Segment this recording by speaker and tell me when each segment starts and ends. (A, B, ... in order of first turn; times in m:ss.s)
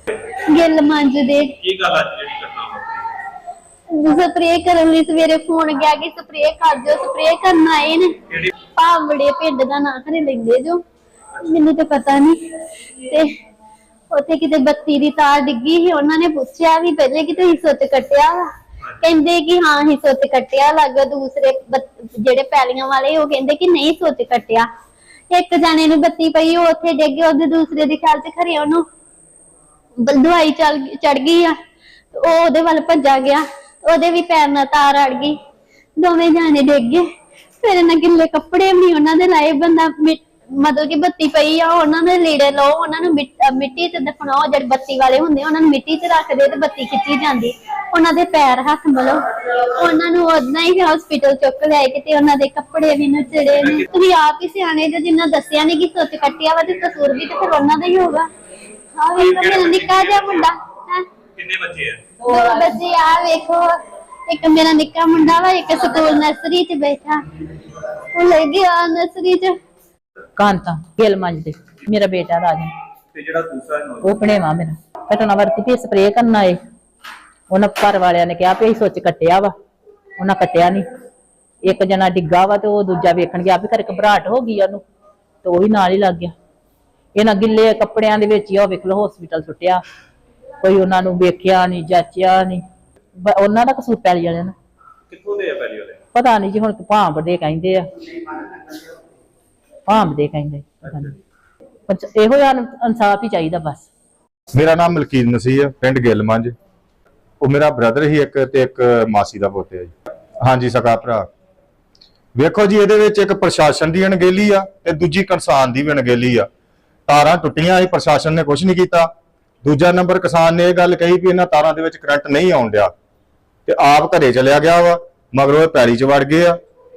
0:00.3-0:01.5 A
0:01.6-0:03.1 B
0:03.9-0:10.8 A
0:11.4-0:12.4 A
0:13.0-0:13.3 A
0:14.1-0:24.7 A
0:25.3-0:28.8 A
0:30.0-0:31.5 A
0:32.1-0:35.4 A
0:36.0-0:37.0 A
0:37.6-0:58.3 A
0:59.0-1:01.0 A
0:59.2-1:00.5 B
1:01.4-1:02.0 B
1:02.2-1:03.8 A
1:04.3-1:07.2 A
1:07.8-1:09.5 A
1:10.4-1:12.7 C
1:13.1-1:14.2 B
1:14.0-1:16.6 C
1:17.5-1:19.5 C
1:20.2-1:20.8 C
1:21.6-1:24.8 C
1:25.4-1:26.3 C
1:27.2-1:29.8 C
1:30.6-1:32.6 C
1:33.2-1:34.5 C
1:35.1-1:36.0 B
1:36.2-1:37.8 C
1:39.9-1:41.1 C
1:41.9-1:43.8 C
1:44.5-1:46.5 D
1:47.4-1:51.3 D
1:52.3-1:56.5 D
1:57.1-1:59.1 D
1:59.6-2:02.9 D
2:03.6-2:06.6 D